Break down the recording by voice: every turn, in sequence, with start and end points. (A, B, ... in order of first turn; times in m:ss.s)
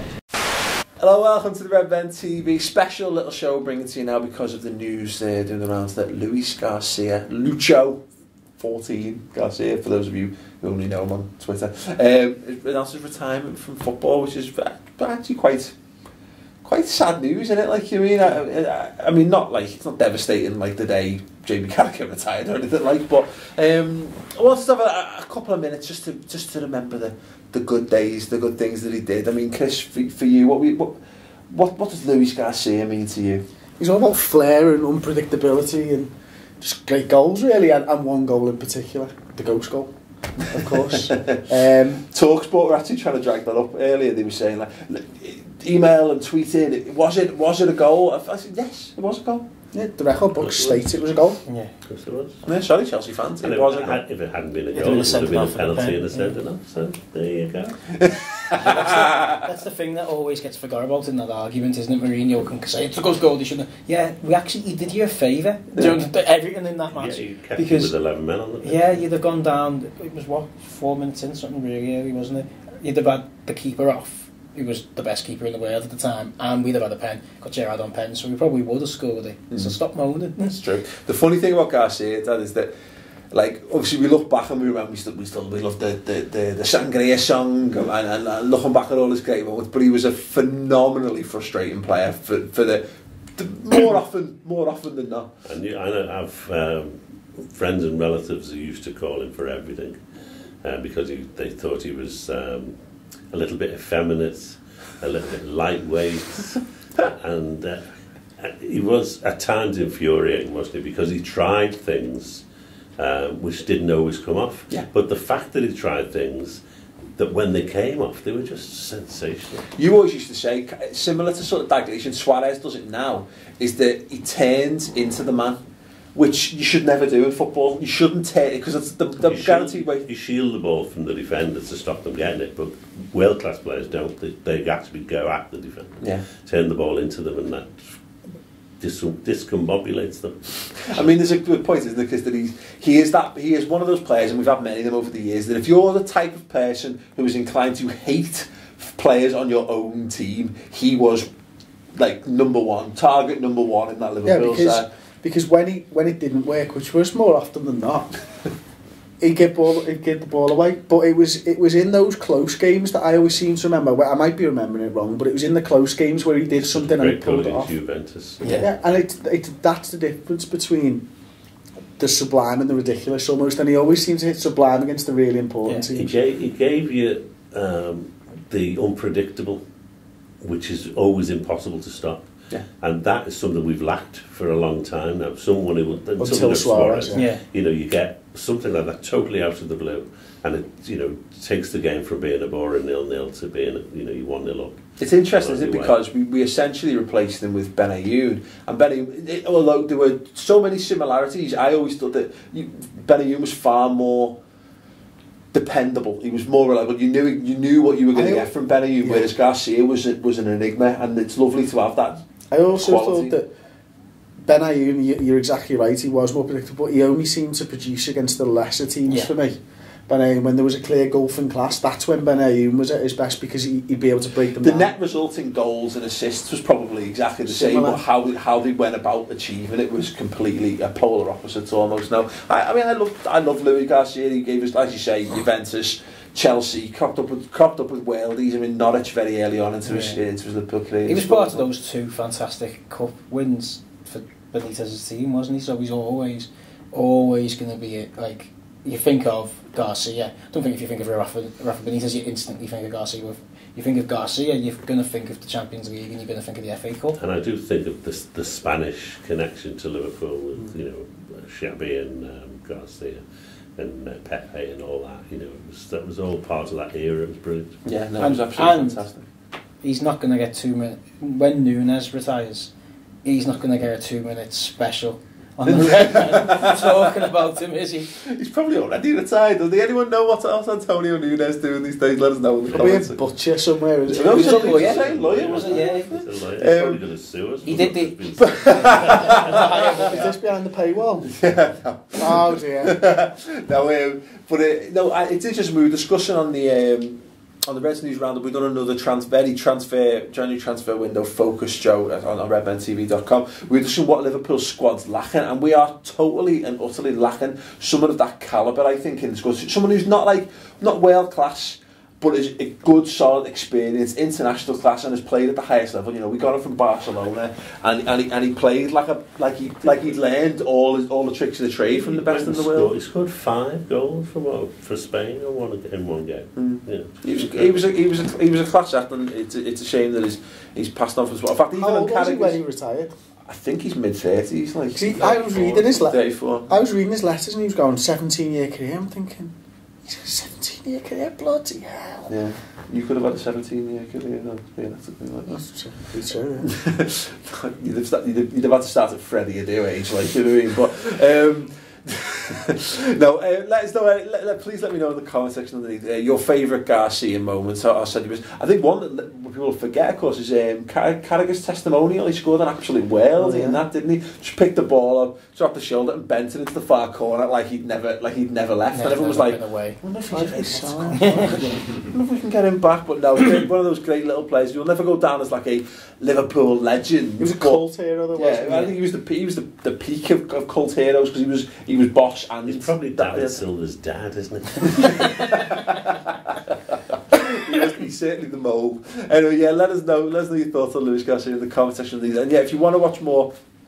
0:01.0-0:08.0 A
0:08.6-0:15.7 A
0:16.6-0:31.0 A
0:31.5-0:33.4 A
0:33.8-0:39.9 B
0:40.5-0:42.0 B
0:40.9-0:41.4 A
0:42.1-0:49.4 A
0:49.7-0:51.4 B
0:50.4-0:51.0 C
0:51.5-0:51.7 D
0:51.8-0:52.4 C
0:52.4-0:54.0 A
0:53.4-0:57.8 C
0:54.8-0:56.4 D
0:58.5-0:59.4 A
0:58.5-1:07.9 D
1:05.7-1:06.0 A
1:06.9-1:08.9 C
1:08.6-1:20.6 D
1:20.5-1:22.7 A
1:23.3-1:32.8 A
1:33.4-1:35.3 A
1:35.4-1:40.0 C
1:40.6-1:42.8 C
1:43.3-1:47.8 C
1:48.4-1:52.4 C
1:53.0-1:56.6 C
1:57.2-1:59.7 C
1:59.7-2:05.6 A
2:06.2-2:10.1 A
2:09.2-2:17.9 C
2:16.0-2:16.3 A
2:18.8-2:21.2 C
2:20.9-2:31.3 A
2:32.0-2:34.9 A
2:34.2-2:38.1 B
2:39.2-2:47.8 B
2:46.6-2:48.7 C
2:48.5-2:51.0 B
2:52.0-2:56.2 B
2:55.9-2:59.6 C
3:00.4-3:02.3 C
3:02.8-3:16.0 C
3:06.2-3:07.3 B
3:07.1-3:07.4 D
3:15.0-3:24.4 A
3:25.5-3:32.2 A
3:28.1-3:29.3 B
3:32.5-3:33.5 B
3:32.8-3:33.4 A
3:34.4-3:44.9 B
3:39.1-3:39.3 D
3:44.6-4:01.6 A
3:47.5-3:48.0 B
3:59.8-4:00.2 D
4:01.1-4:17.2 D
4:17.2-4:23.2 C
4:23.8-4:27.8 C
4:27.8-4:29.2 A
4:28.2-4:29.1 D
4:29.8-4:32.7 D
4:33.2-4:38.2 D
4:35.6-4:37.1 A
4:38.2-4:43.2 A
4:42.7-4:43.1 C
4:42.7-4:44.8 B
4:44.1-4:47.0 A
4:44.2-4:46.1 D
4:44.7-4:50.0 C
4:47.6-4:50.4 D
4:48.5-4:50.2 A
4:49.9-4:51.3 B
4:51.2-5:22.9 A
4:52.2-4:53.0 B
5:21.9-5:27.9 C
5:26.6-5:32.6 A
5:31.7-5:33.1 B
5:33.5-5:36.7 A
5:34.9-5:39.5 B
5:40.1-5:42.3 B
5:42.3-5:45.6 A
5:45.5-5:46.7 B
5:46.6-6:17.8 A
6:03.4-6:03.8 B
6:08.9-6:10.0 D
6:10.3-6:11.8 B
6:11.2-6:11.5 D
6:17.4-6:19.0 B
6:18.4-6:23.6 A
6:22.7-6:25.7 C
6:25.0-6:26.1 A
6:27.3-6:33.5 A